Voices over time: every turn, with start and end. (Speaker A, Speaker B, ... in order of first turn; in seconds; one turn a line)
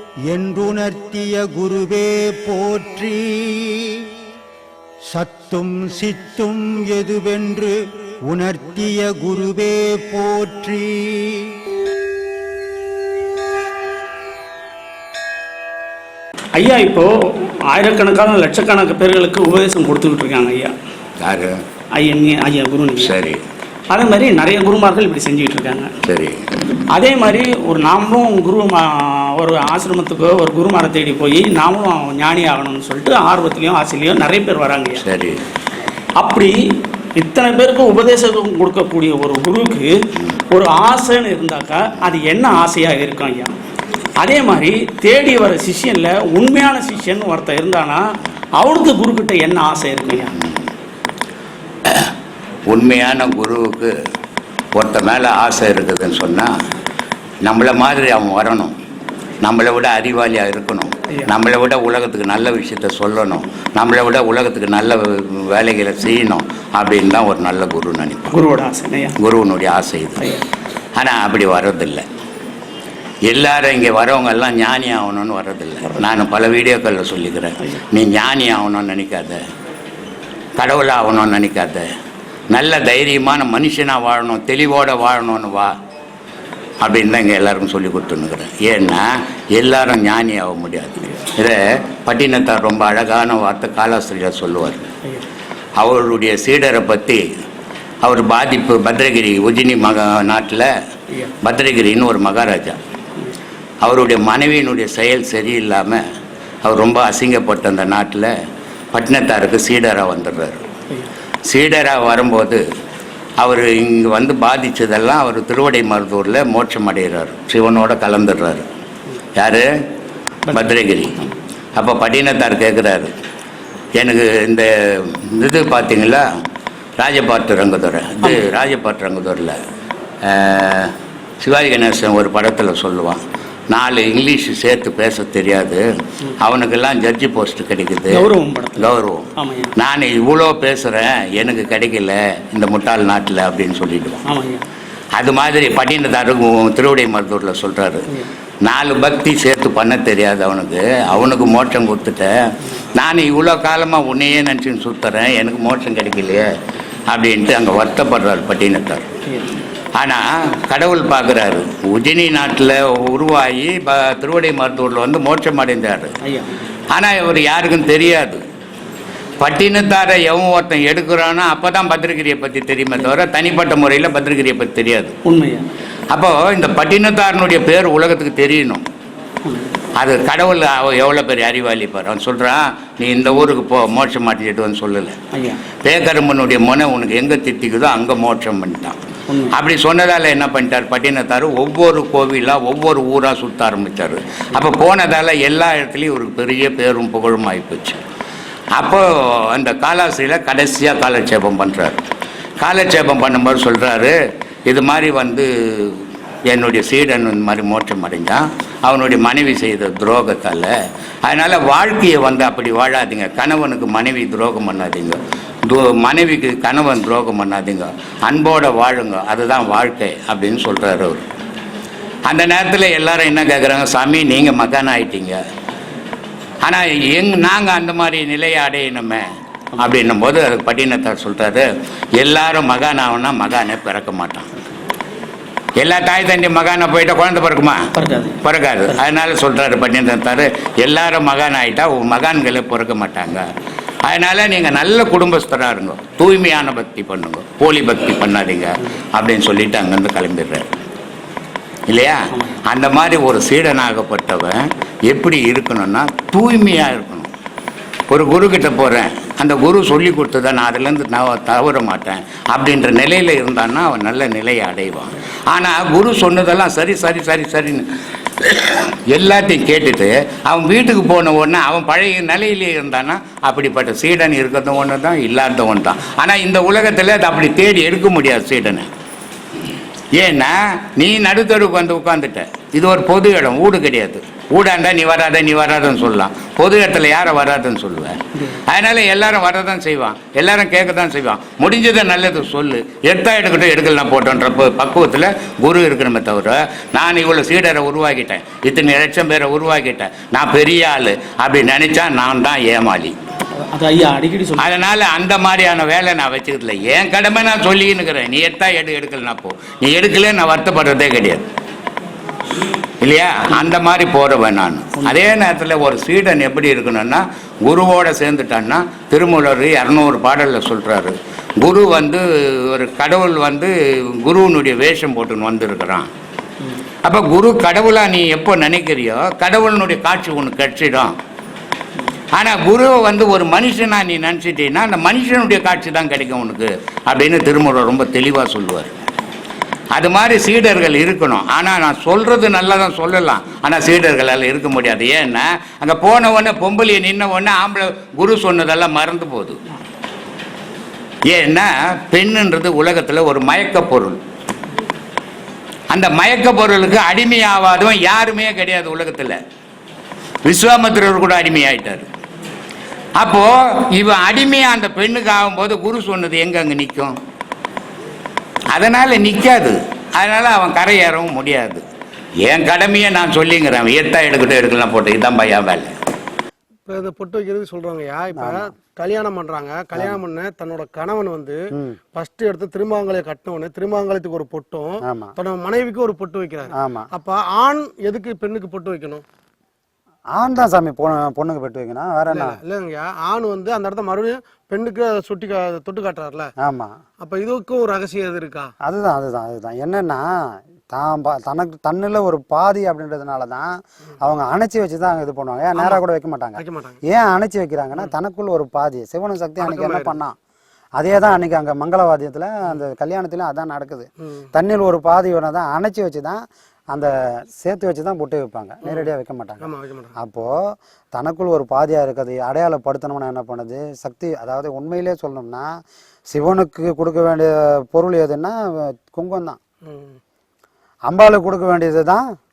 Speaker A: 0.3-4.0
Speaker A: 5.1-7.8
Speaker A: 8.3-11.5
Speaker B: 16.6-20.7
Speaker C: 21.2-21.6
Speaker B: 21.9-23.1
Speaker C: 23.0-23.4
Speaker B: 23.9-25.9
Speaker C: 26.0-26.4
Speaker B: 26.9-35.0
Speaker C: 35.0-35.4
Speaker B: 36.2-36.5
Speaker B: 37.2-39.9
Speaker B: 40.5-43.5
Speaker B: 44.2-50.3
Speaker C: 50.4-50.7
Speaker C: 51.9-52.1
Speaker C: 52.7-53.9
Speaker C: 54.7-56.5
Speaker C: 57.4-58.7
Speaker C: 59.4-68.3
Speaker B: 68.3-69.2
Speaker C: 69.2-70.2
Speaker B: 70.2-70.4
Speaker C: 71.0-72.0
Speaker C: 73.2-79.4
Speaker C: 80.6-81.9
Speaker C: 82.5-85.7
Speaker C: 86.8-94.9
Speaker C: 95.8-97.2
Speaker C: 98.0-100.7
Speaker C: 101.4-102.8
Speaker C: 103.8-106.0
Speaker C: 106.6-108.3
Speaker C: 108.9-110.6
Speaker C: 111.5-112.6
Speaker C: 113.4-118.7
Speaker C: 119.3-119.7
Speaker B: 120.5-121.3
Speaker C: 120.5-121.2
Speaker C: 121.8-123.1
Speaker C: 124.0-126.2
Speaker C: 127.0-129.6
Speaker B: 128.2-128.5
Speaker C: 130.2-135.8
Speaker C: 136.4-144.2
Speaker B: 138.1-139.7
Speaker B: 144.2-144.6
Speaker C: 145.2-148.0
Speaker C: 148.7-152.3
Speaker C: 152.9-156.5
Speaker C: 157.1-159.1
Speaker B: 159.2-159.6
Speaker C: 159.9-166.1
Speaker B: 166.2-166.6
Speaker C: 166.9-168.4
Speaker C: 169.4-175.1
Speaker B: 175.2-175.7
Speaker C: 176.1-178.8
Speaker B: 179.4-179.7
Speaker C: 179.9-185.2
Speaker B: 185.3-185.7
Speaker C: 185.8-189.0
Speaker B: 189.3-189.5
Speaker C: 189.5-198.0
Speaker C: 198.8-202.0
Speaker C: 202.6-204.1
Speaker C: 204.7-210.7
Speaker C: 211.2-221.2
Speaker C: 222.3-225.4
Speaker C: 226.6-229.2
Speaker C: 229.8-231.7
Speaker C: 232.2-234.5
Speaker C: 235.8-237.8
Speaker B: 237.9-239.0
Speaker C: 238.4-243.4
Speaker C: 244.0-250.7
Speaker C: 251.9-257.3
Speaker B: 252.3-252.6
Speaker C: 258.1-267.8
Speaker C: 268.4-278.9
Speaker C: 280.2-303.1
Speaker B: 303.6-304.7
Speaker C: 304.6-311.4
Speaker C: 313.0-326.1
Speaker C: 327.0-331.1
Speaker C: 332.3-339.1
Speaker C: 339.9-349.6
Speaker C: 351.3-354.2
Speaker C: 355.9-359.4
Speaker C: 360.4-362.1
Speaker C: 363.2-367.1
Speaker C: 368.7-371.8
Speaker C: 372.4-375.9
Speaker D: 376.9-381.6
Speaker D: 382.1-389.2
Speaker E: 386.8-387.1
Speaker E: 390.4-392.6
Speaker D: 392.3-396.5
Speaker E: 396.6-396.9
Speaker D: 397.2-398.7
Speaker E: 398.8-400.2
Speaker E: 400.9-410.3
Speaker D: 406.6-407.0
Speaker D: 409.6-410.1
Speaker E: 411.0-416.4
Speaker E: 416.9-420.5
Speaker D: 419.6-420.1
Speaker E: 421.1-425.7
Speaker E: 426.3-429.6
Speaker D: 429.8-430.2
Speaker E: 431.1-432.2